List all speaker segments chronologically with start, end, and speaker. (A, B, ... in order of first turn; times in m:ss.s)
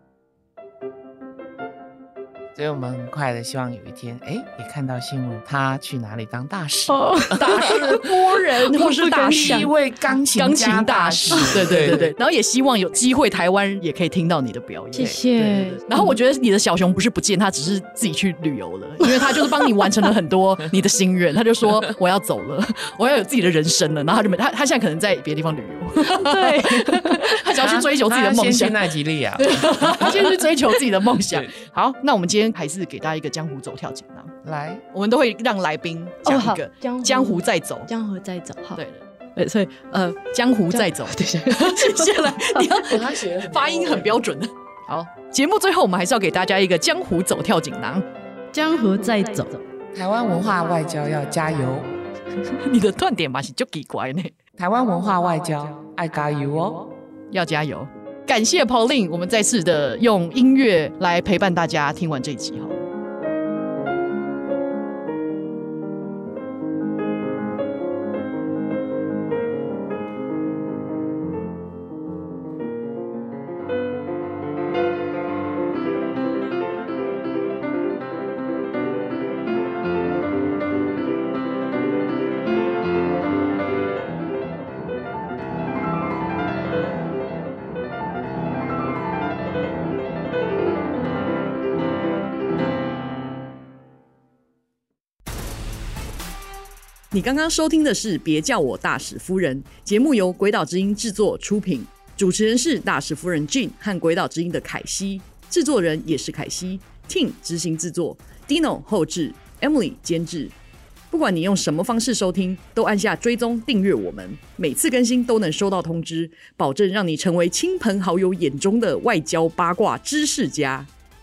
0:02.5-0:08.4 A
0:06.9-0:07.8 B
0:07.4-0:09.7 C
0:08.7-0:09.7 B
0:09.1-0:12.1 A
0:10.3-0:34.3 C
0:14.9-0:16.1 B
0:26.0-0:27.4 B
0:27.6-0:30.5 A
0:31.2-0:31.5 A
0:34.4-0:34.8 A
0:34.9-0:37.9 C
0:36.2-0:38.8 B
0:38.8-0:39.0 C
0:39.3-0:40.2 B
0:40.2-0:48.0 C
0:40.7-0:42.8 B
0:42.8-0:44.2 A
0:48.5-0:49.6 B
0:49.9-0:52.0 A
0:52.5-0:54.3 C
0:54.6-0:56.9 A
0:57.3-1:02.8 C
1:37.1-1:50.5 C
1:51.1-2:00.9 C